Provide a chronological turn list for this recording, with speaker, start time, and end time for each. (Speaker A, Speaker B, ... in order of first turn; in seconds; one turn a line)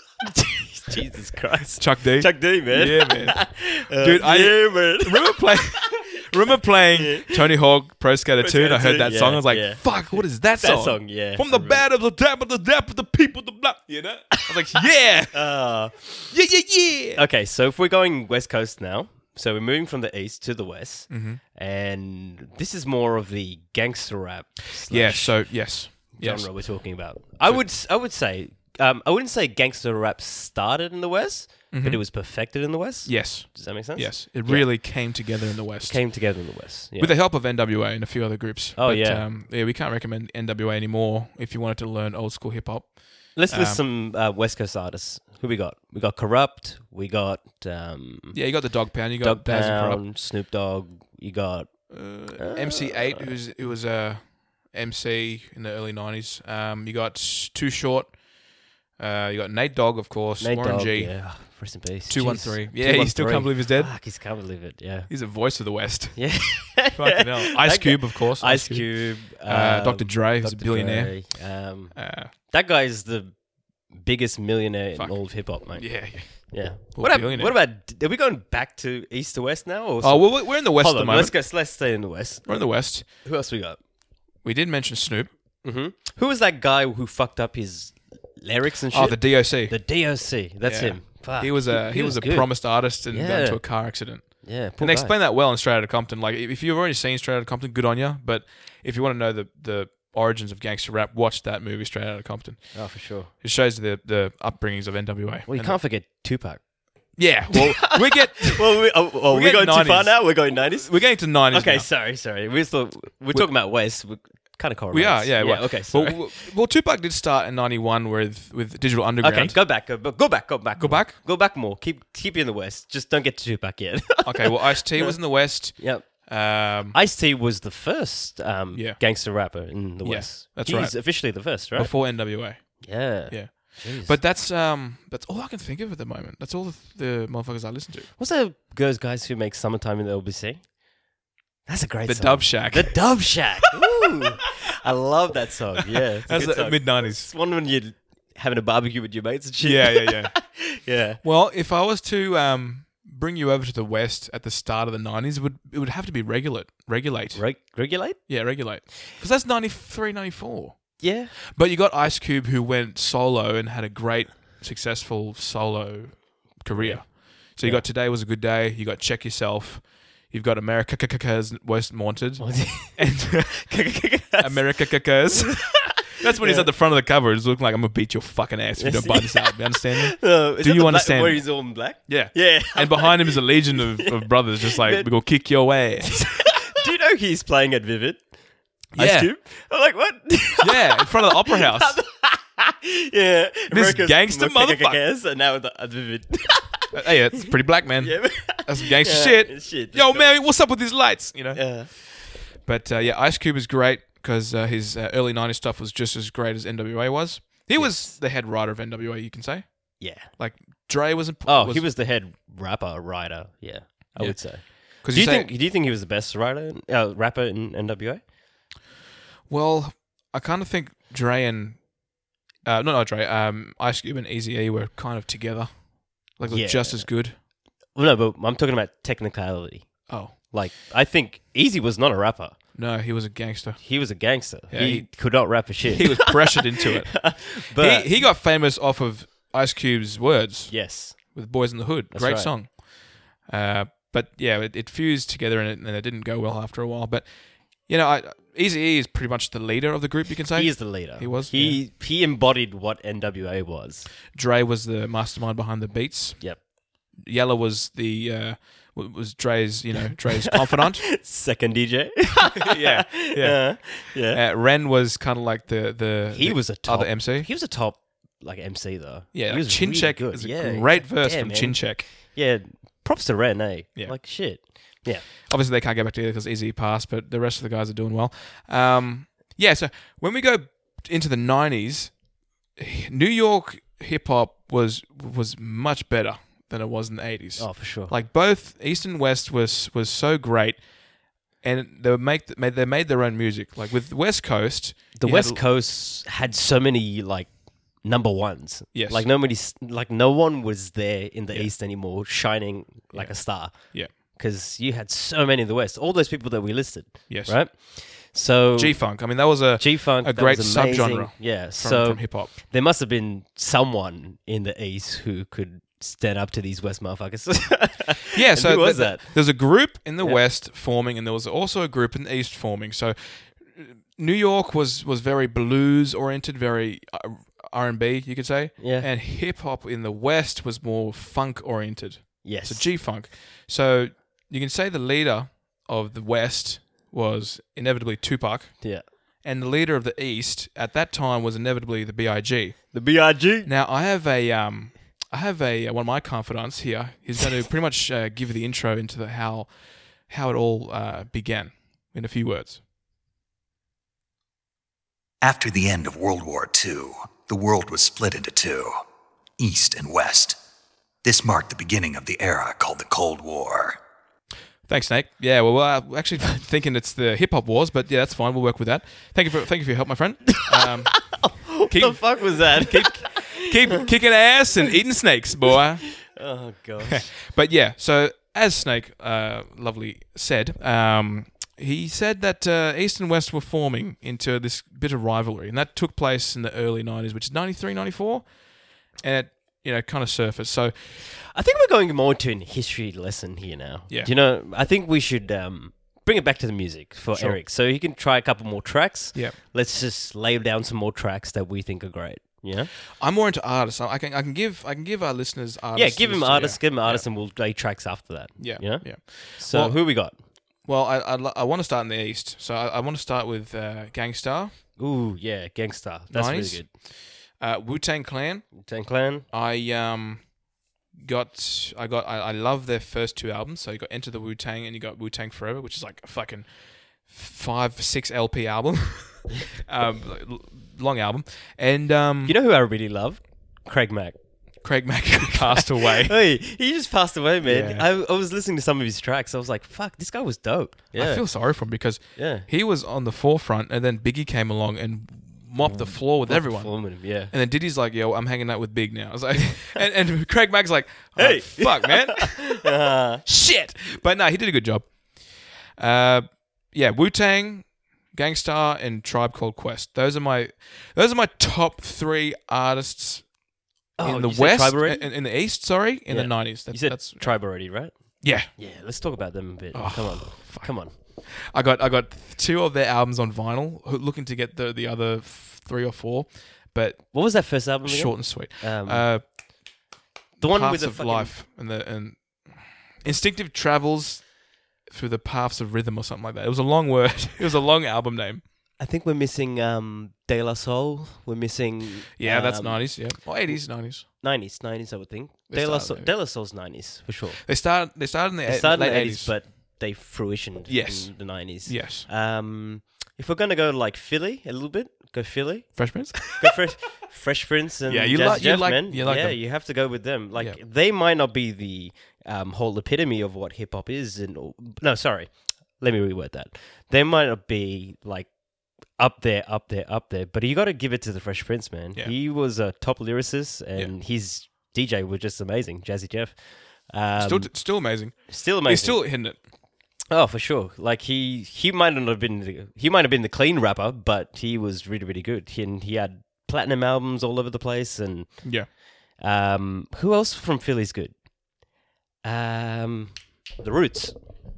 Speaker A: 0.2-5.9
Speaker B: 1.8-15.5
Speaker A: 6.9-7.5
Speaker A: 8.4-11.8
Speaker A: 15.3-16.3
Speaker B: 16.3-17.2
Speaker A: 17.1-35.3
Speaker B: 21.1-21.4
Speaker B: 24.9-27.7
Speaker B: 31.7-32.0
Speaker B: 33.1-36.0
Speaker A: 35.8-37.2
Speaker B: 37.0-43.8
Speaker A: 38.8-39.2
Speaker A: 43.4-53.3
Speaker B: 48.3-50.0
Speaker B: 51.9-58.2
Speaker B: 59.0-61.5
Speaker A: 60.4-65.1
Speaker B: 62.1-63.9
Speaker B: 65.1-72.3
Speaker A: 66.2-82.6
Speaker B: 75.0-77.6
Speaker B: 80.0-81.3
Speaker B: 82.5-83.1
Speaker A: 83.2-83.8
Speaker B: 84.4-85.3
Speaker A: 85.6-95.2
Speaker B: 88.9-90.0
Speaker B: 90.6-105.8
Speaker A: 102.7-103.3
Speaker A: 105.5-116.3
Speaker B: 107.2-111.9
Speaker B: 114.9-119.6
Speaker A: 119.2-132.0
Speaker B: 120.8-121.2
Speaker B: 124.2-127.0
Speaker B: 128.7-138.1
Speaker A: 132.6-134.2
Speaker A: 138.2-140.8
Speaker A: 141.7-151.2
Speaker B: 142.1-143.4
Speaker B: 146.0-147.3
Speaker B: 149.6-150.6
Speaker B: 151.2-157.5
Speaker A: 157.3-158.3
Speaker B: 158.3-173.7
Speaker A: 161.0-161.3
Speaker A: 166.8-167.8
Speaker A: 172.4-174.8
Speaker B: 174.4-186.5
Speaker A: 175.3-176.7
Speaker A: 178.8-185.1
Speaker A: 186.1-188.3
Speaker A: 188.9-196.9
Speaker B: 188.9-189.3
Speaker B: 190.6-192.0
Speaker B: 193.7-195.0
Speaker B: 196.9-211.9
Speaker A: 198.0-200.4
Speaker A: 201.6-201.9
Speaker A: 207.8-208.1
Speaker A: 210.0-210.3
Speaker A: 211.4-218.2
Speaker B: 214.1-215.5
Speaker B: 219.5-221.9
Speaker B: 222.6-227.4
Speaker A: 226.4-227.1
Speaker A: 227.9-232.6
Speaker B: 230.1-230.3
Speaker B: 232.8-233.8
Speaker A: 233.8-238.3
Speaker B: 234.7-251.8
Speaker A: 240.7-241.2
Speaker A: 242.1-242.5
Speaker A: 250.6-254.1
Speaker B: 254.3-261.1
Speaker A: 260.5-264.4
Speaker B: 262.7-267.5
Speaker A: 266.3-275.3
Speaker B: 269.3-272.1
Speaker B: 275.4-282.2
Speaker B: 282.7-291.0
Speaker A: 287.6-288.1
Speaker B: 291.5-295.6
Speaker A: 295.2-309.2
Speaker B: 298.9-299.3
Speaker B: 303.1-304.1
Speaker B: 307.3-307.6
Speaker B: 308.8-312.5
Speaker A: 309.8-319.6
Speaker B: 318.4-343.0
Speaker A: 328.8-329.1
Speaker A: 332.4-332.9
Speaker A: 342.9-343.7
Speaker B: 343.6-352.8
Speaker C: 355.4-359.0
Speaker C: 359.6-360.6
Speaker C: 361.2-364.0
Speaker B: 364.9-376.3
Speaker A: 371.2-373.6
Speaker A: 376.2-377.3
Speaker B: 377.1-388.6
Speaker B: 389.2-391.2
Speaker A: 391.3-402.9
Speaker B: 397.3-397.6
Speaker B: 403.2-407.3
Speaker A: 405.9-410.4
Speaker B: 408.6-410.1
Speaker B: 410.8-414.8
Speaker A: 415.0-416.9
Speaker B: 416.3-417.0
Speaker B: 417.6-418.7
Speaker A: 418.8-419.5
Speaker B: 419.5-420.5
Speaker B: 421.1-432.6
Speaker A: 432.4-434.4
Speaker B: 434.8-436.4
Speaker A: 435.4-441.6
Speaker B: 437.6-438.1
Speaker B: 441.1-452.9
Speaker A: 442.4-442.7
Speaker A: 445.9-447.5
Speaker A: 451.4-453.4
Speaker B: 453.4-463.5
Speaker A: 464.2-465.3
Speaker B: 464.2-467.7
Speaker A: 466.3-471.1
Speaker B: 468.4-468.7
Speaker B: 469.9-479.4
Speaker A: 477.3-479.5
Speaker B: 480.6-488.6
Speaker A: 480.6-481.5
Speaker A: 489.0-497.7
Speaker B: 492.4-494.3
Speaker B: 495.7-496.3
Speaker B: 497.6-499.6
Speaker A: 498.6-518.5
Speaker B: 500.9-502.3
Speaker B: 506.0-506.8
Speaker B: 508.1-509.6
Speaker A: 519.1-527.8
Speaker B: 527.4-529.6
Speaker A: 528.5-529.2
Speaker A: 530.3-541.4
Speaker B: 538.6-538.9
Speaker A: 542.4-544.4